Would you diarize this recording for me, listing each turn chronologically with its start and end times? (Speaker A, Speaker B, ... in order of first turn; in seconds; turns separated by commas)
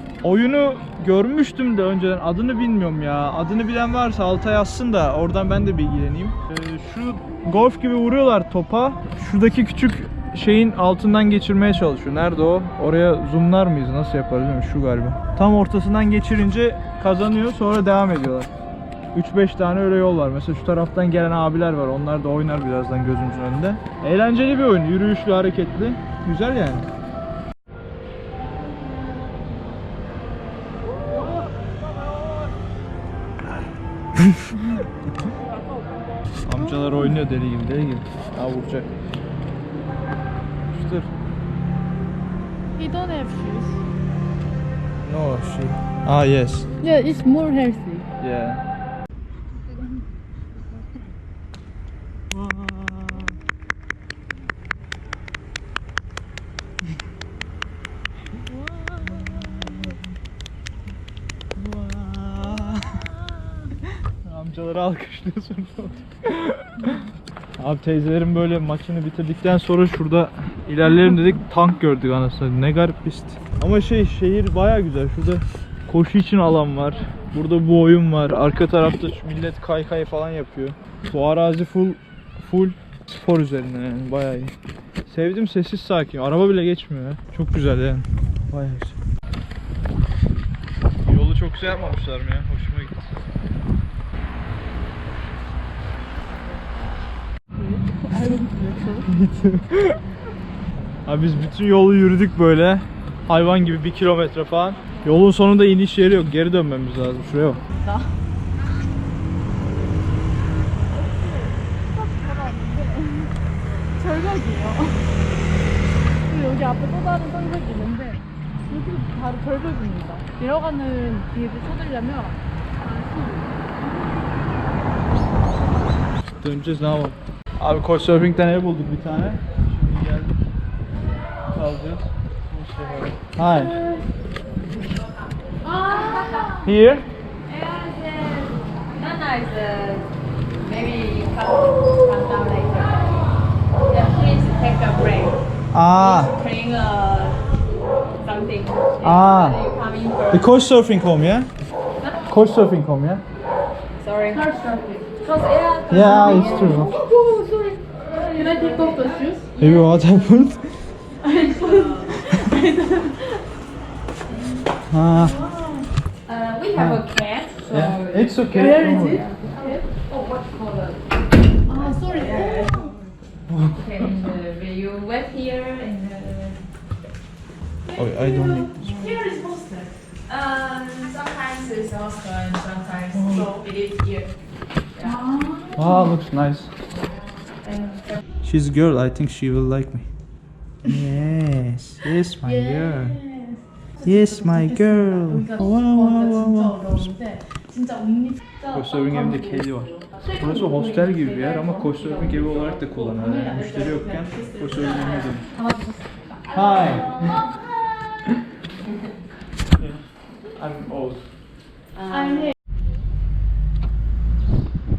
Speaker A: 0.2-18.5, Speaker A: 19.1-26.9, Speaker A: 36.5-38.9, Speaker A: 40.7-41.1, Speaker B: 42.8-43.8, Speaker A: 45.0-46.7, Speaker B: 46.8-48.0, Speaker A: 48.2-48.6, Speaker A: 52.3-53.3, Speaker B: 58.8-59.6, Speaker A: 59.3-59.8, Speaker A: 61.5-63.0, Speaker A: 64.2-67.0, Speaker A: 67.6-84.5, Speaker A: 85.1-89.0, Speaker A: 91.0-93.1, Speaker B: 97.5-99.1, Speaker A: 99.1-100.0, Speaker A: 101.0-107.6, Speaker B: 107.8-108.1, Speaker B: 111.9-113.3, Speaker B: 114.0-115.0, Speaker B: 116.2-122.4, Speaker A: 126.4-130.3, Speaker A: 131.5-133.8, Speaker B: 133.4-134.0, Speaker C: 135.6-136.7, Speaker B: 135.7-136.6, Speaker A: 136.6-137.1, Speaker C: 137.4-140.1, Speaker C: 140.6-143.2, Speaker C: 143.9-145.4, Speaker A: 145.7-146.3, Speaker C: 145.9-147.4, Speaker C: 148.2-150.5, Speaker A: 149.0-149.6, Speaker A: 150.3-151.5, Speaker A: 152.3-153.2, Speaker C: 154.0-154.4, Speaker B: 154.3-155.1, Speaker C: 155.2-156.9, Speaker A: 155.9-157.0, Speaker B: 155.9-157.8, Speaker C: 158.1-159.9, Speaker B: 158.3-159.4, Speaker A: 159.6-160.8, Speaker C: 161.2-163.1, Speaker B: 161.2-162.7, Speaker A: 164.9-165.4, Speaker C: 165.1-171.1, Speaker A: 166.7-167.0, Speaker A: 167.7-169.2, Speaker B: 168.5-169.8, Speaker B: 171.7-172.9, Speaker C: 171.7-173.0, Speaker A: 173.5-174.0, Speaker C: 173.7-176.6, Speaker C: 177.9-179.4, Speaker A: 177.9-178.9, Speaker B: 178.9-179.9, Speaker C: 180.2-184.3, Speaker A: 183.1-183.5, Speaker C: 184.9-185.2, Speaker B: 185.0-185.8, Speaker A: 185.7-186.7, Speaker C: 187.6-188.0, Speaker A: 188.4-190.1, Speaker A: 190.8-193.2, Speaker B: 192.6-193.6, Speaker A: 194.0-197.1, Speaker B: 195.1-198.4, Speaker A: 198.7-205.5, Speaker B: 205.5-206.0, Speaker A: 206.5-207.4, Speaker A: 209.8-210.0, Speaker A: 210.6-211.2, Speaker C: 211.9-212.5